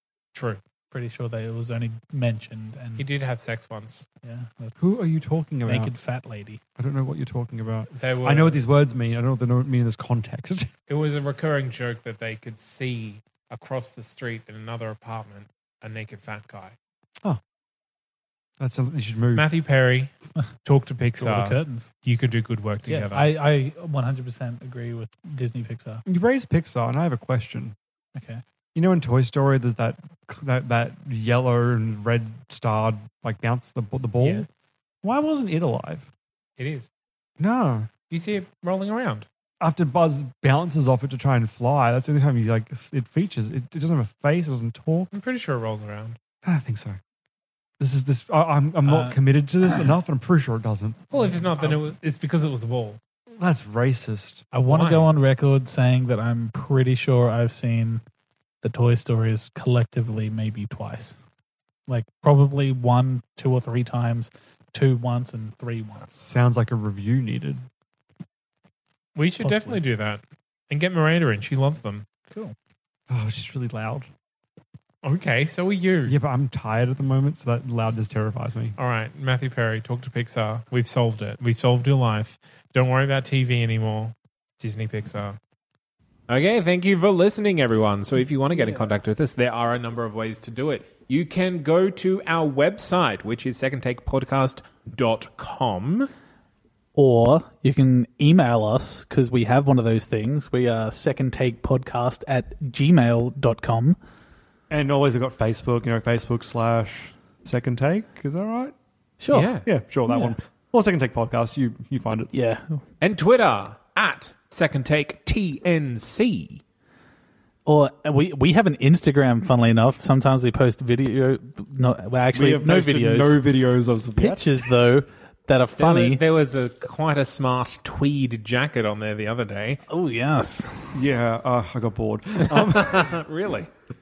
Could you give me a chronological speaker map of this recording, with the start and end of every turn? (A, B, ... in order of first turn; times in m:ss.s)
0:00.3-0:00.6 A
0:00.9-0:03.1 B
0:03.0-0:04.0 A
0:04.2-0:04.8 B
0:04.8-0:05.9 C
0:05.6-0:06.6 B
0:06.8-0:10.7 C
0:07.9-0:08.6 A
0:10.9-0:16.8 A
0:18.6-0:19.5 C
0:19.3-0:23.4 A
0:21.2-0:21.9 B
0:22.8-0:26.0 B
0:26.0-0:27.8 C
0:28.1-0:28.4 B
0:28.7-0:34.5 C
0:34.2-0:34.5 A
0:35.0-0:36.1 C
0:36.6-0:36.9 A
0:37.4-0:37.9 C
0:38.1-0:39.3 A
0:39.6-0:45.1 C
0:45.1-0:46.2 A
0:46.4-0:47.0 C
0:47.8-0:51.0 C
0:48.8-0:49.2 B
0:51.1-0:53.0 A
0:51.1-0:51.8 B
0:53.4-0:54.4 C
0:54.5-0:58.0 B
0:54.6-0:55.1 A
0:58.6-1:01.2 B
1:01.9-1:06.1 B
1:06.1-1:07.7 C
1:09.1-1:12.1 A
1:09.4-1:09.8 B
1:12.3-1:12.5 B
1:13.1-1:14.1 C
1:15.0-1:16.2 A
1:16.0-1:18.8 C
1:18.8-1:25.4 A
1:26.3-1:36.1 A
1:28.5-1:28.9 B
1:36.9-1:44.0 B
1:44.7-1:48.7 C
1:49.2-1:50.4 B
1:49.3-1:49.6 A
1:49.6-1:52.3 C
1:52.3-1:52.8 B
1:53.0-1:56.6 A
1:57.6-2:03.4 B
2:02.3-2:04.5 C
2:04.2-2:06.2 B
2:05.8-2:09.8 A
2:09.9-2:11.0 B
2:10.9-2:13.2 C
2:12.5-2:13.7 A